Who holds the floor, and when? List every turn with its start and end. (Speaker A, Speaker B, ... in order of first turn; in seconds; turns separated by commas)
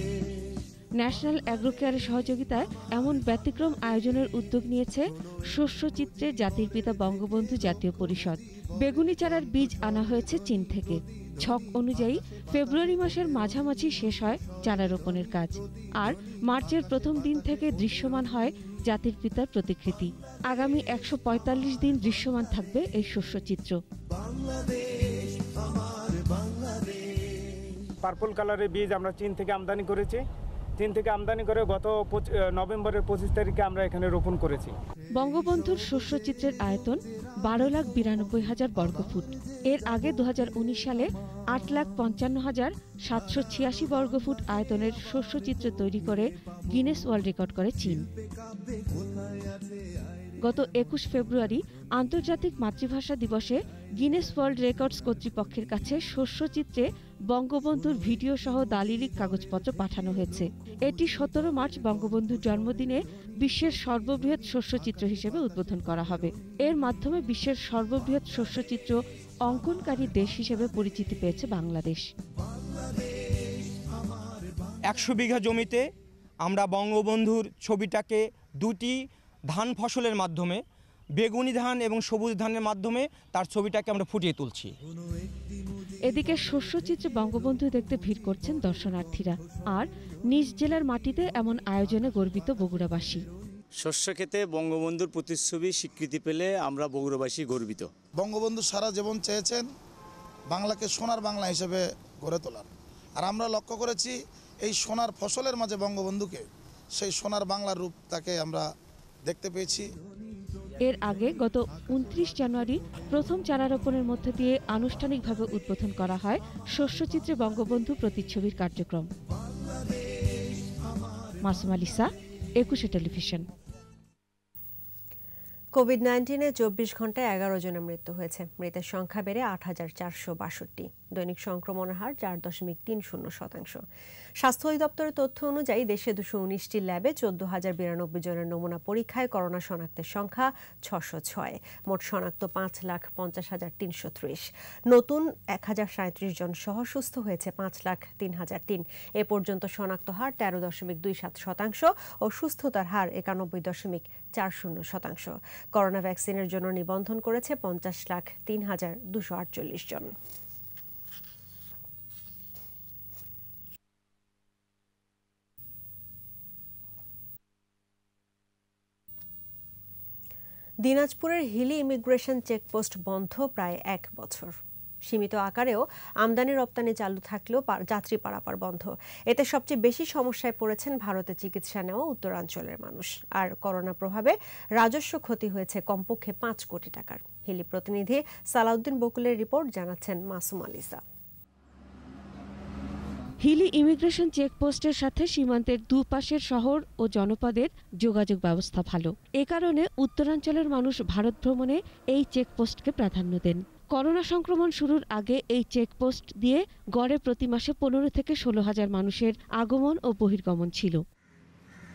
Speaker A: 1.0-23.8, Speaker B: 28.0-30.2, Speaker B: 30.8-34.7, Speaker A: 35.2-48.0, Speaker A: 50.4-72.0, Speaker C: 74.9-75.8, Speaker C: 76.4-80.6, Speaker C: 81.2-84.7, Speaker A: 86.0-93.2, Speaker D: 93.8-97.9, Speaker E: 98.2-99.6, Speaker E: 100.5-102.7, Speaker E: 103.2-106.4, Speaker E: 107.0-108.6, Speaker E: 109.2-109.8, Speaker A: 110.8-119.1, Speaker A: 121.4-122.1, Speaker A: 122.6-123.4, Speaker F: 125.7-133.8, Speaker F: 134.4-160.1, Speaker F: 170.8-174.5, Speaker F: 175.0-191.0, Speaker A: 193.4-211.0